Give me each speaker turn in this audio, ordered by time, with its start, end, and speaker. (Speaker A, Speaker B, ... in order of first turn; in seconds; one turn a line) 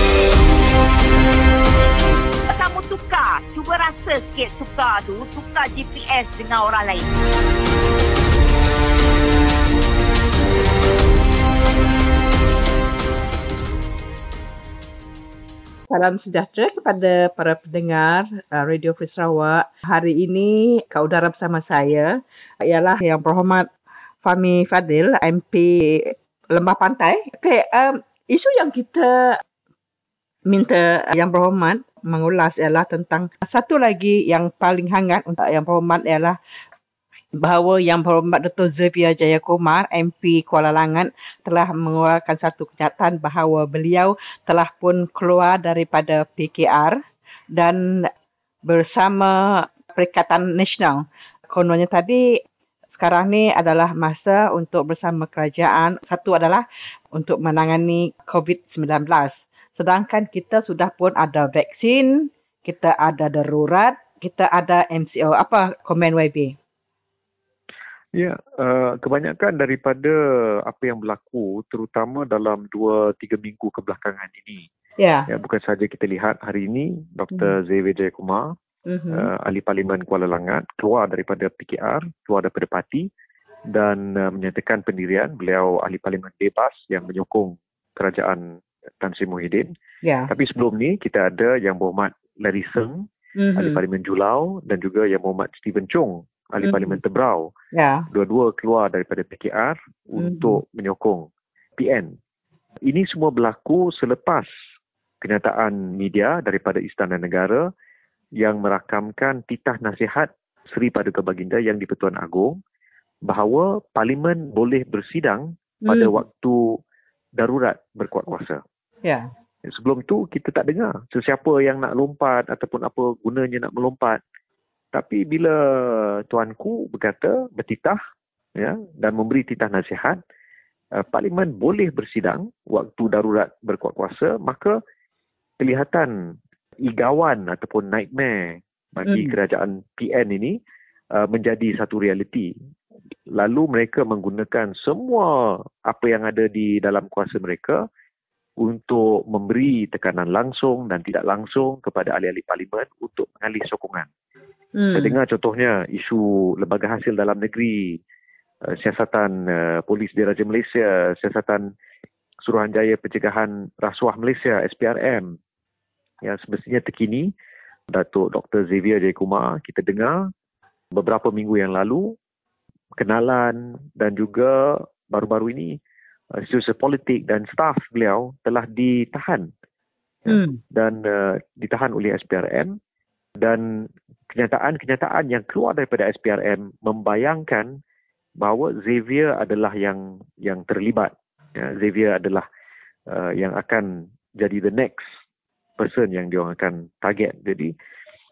Speaker A: 2.5-7.0
Speaker B: 15.9-23.7
Speaker B: 24.2-29.4
Speaker B: 30.5-36.4
Speaker B: 37.4-47.0
Speaker B: 47.5-48.1
Speaker B: 48.6-52.4
Speaker B: 52.9-66.5
Speaker C: 68.2-74.7
Speaker B: 75.0-75.3
Speaker C: 75.3-78.5
Speaker B: 78.9-79.2
Speaker C: 79.1-83.1
Speaker C: 83.7-89.7
Speaker B: 90.0-90.3
Speaker C: 90.3-97.5
Speaker B: 93.4-93.8
Speaker B: 96.6-97.0
Speaker B: 97.7-98.1
Speaker C: 98.1-102.2
Speaker B: 100.2-100.5
Speaker C: 102.9-104.5
Speaker C: 105.2-107.7
Speaker C: 108.4-112.6
Speaker C: 113.3-116.6
Speaker B: 115.9-116.1
Speaker C: 117.4-118.6
Speaker C: 119.7-124.2
Speaker C: 124.9-128.0
Speaker C: 128.6-130.2
Speaker C: 130.9-134.8
Speaker C: 135.6-136.1
Speaker C: 136.8-140.6
Speaker C: 141.2-142.5
Speaker C: 143.3-147.8
Speaker C: 148.6-154.1
Speaker B: 154.8-155.1
Speaker C: 154.9-158.0
Speaker C: 158.7-161.7
Speaker C: 162.4-165.3
Speaker C: 166.2-167.3
Speaker C: 167.9-170.3
Speaker C: 170.9-172.2
Speaker C: 173.0-175.8
Speaker C: 176.4-179.5
Speaker C: 180.2-182.8
Speaker B: 180.3-180.6
Speaker C: 183.4-187.8
Speaker C: 188.4-192.5
Speaker C: 193.1-195.1
Speaker C: 195.8-197.7